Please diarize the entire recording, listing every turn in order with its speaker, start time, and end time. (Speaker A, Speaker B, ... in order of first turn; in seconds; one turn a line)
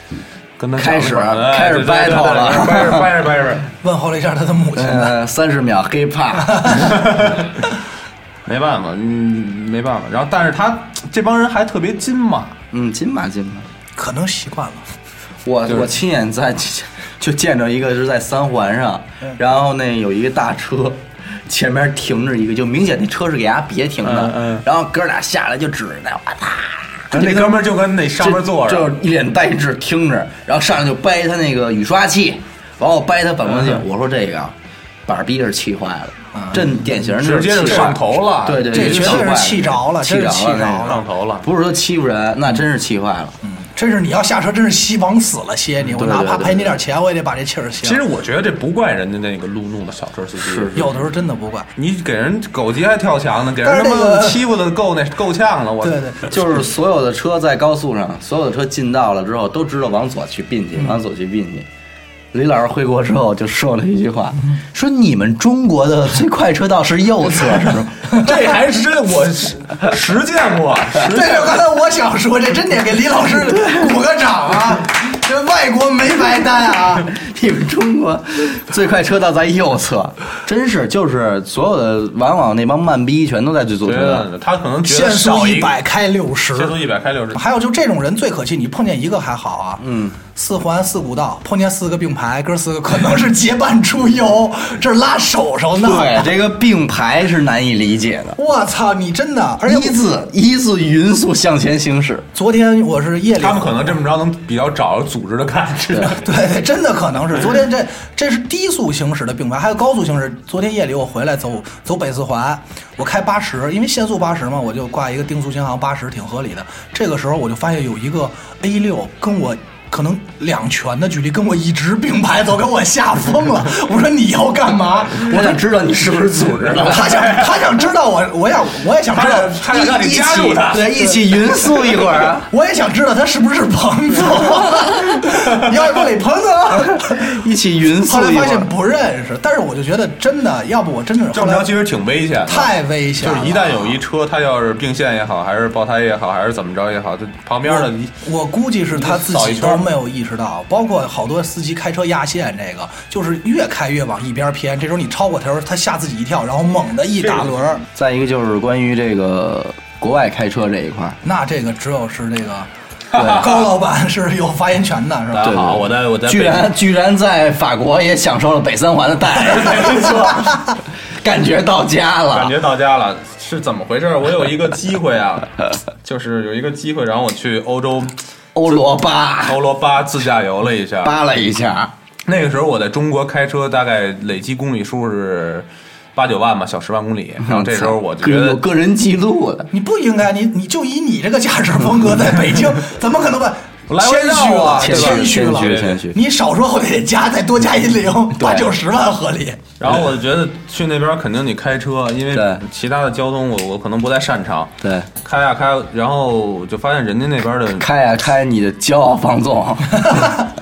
Speaker A: 0.6-3.6
Speaker B: 0.8-3.1
Speaker C: 3.8-5.2
Speaker B: 4.7-6.9
Speaker C: 6.4-6.9
Speaker A: 6.8-7.6
Speaker A: 8.4-12.6
Speaker B: 12.7-13.7
Speaker C: 13.9-14.9
Speaker B: 15.4-27.6
Speaker A: 24.0-24.6
Speaker A: 27.1-28.9
Speaker B: 28.2-34.5
Speaker B: 35.1-43.4
Speaker C: 36.3-36.7
Speaker A: 37.0-39.3
Speaker C: 38.7-41.0
Speaker A: 40.8-41.5
Speaker C: 43.4-48.0
Speaker B: 45.9-46.8
Speaker A: 47.8-50.9
Speaker B: 50.4-50.9
Speaker C: 50.7-51.7
Speaker A: 51.8-56.3
Speaker C: 53.6-54.5
Speaker C: 55.8-56.3
Speaker B: 56.3-61.6
Speaker B: 62.3-67.9
Speaker A: 68.1-71.6
Speaker C: 71.0-77.1
Speaker B: 77.1-84.2
Speaker A: 83.8-85.8
Speaker C: 84.8-86.8
Speaker A: 86.5-87.4
Speaker C: 87.3-96.3
Speaker B: 89.8-90.2
Speaker B: 95.8-98.4
Speaker C: 98.4-100.0
Speaker B: 99.6-102.2
Speaker C: 102.3-104.0
Speaker A: 103.3-106.3
Speaker C: 106.1-125.4
Speaker B: 125.2-127.1
Speaker C: 126.8-131.3
Speaker A: 126.9-127.6
Speaker A: 129.1-131.1
Speaker B: 130.6-132.5
Speaker C: 132.4-137.3
Speaker B: 136.9-138.7
Speaker C: 138.0-141.7
Speaker A: 141.3-148.1
Speaker C: 142.4-143.9
Speaker C: 147.7-157.8
Speaker A: 148.9-149.9
Speaker A: 157.2-157.5
Speaker B: 157.9-161.2
Speaker C: 161.2-162.7
Speaker A: 163.1-163.5
Speaker B: 163.1-163.5
Speaker C: 163.2-165.6
Speaker A: 165.3-166.8
Speaker B: 165.4-170.3
Speaker A: 169.3-170.5
Speaker B: 171.1-172.5
Speaker A: 172.3-178.8
Speaker B: 178.5-179.6
Speaker A: 179.4-181.1
Speaker B: 181.0-181.9
Speaker A: 182.3-188.6
Speaker B: 187.4-189.7
Speaker C: 189.7-199.6
Speaker A: 193.9-196.0
Speaker B: 194.8-196.2
Speaker B: 198.3-198.7
Speaker A: 199.8-207.9
Speaker B: 202.3-202.6
Speaker B: 204.8-205.1
Speaker B: 207.8-210.4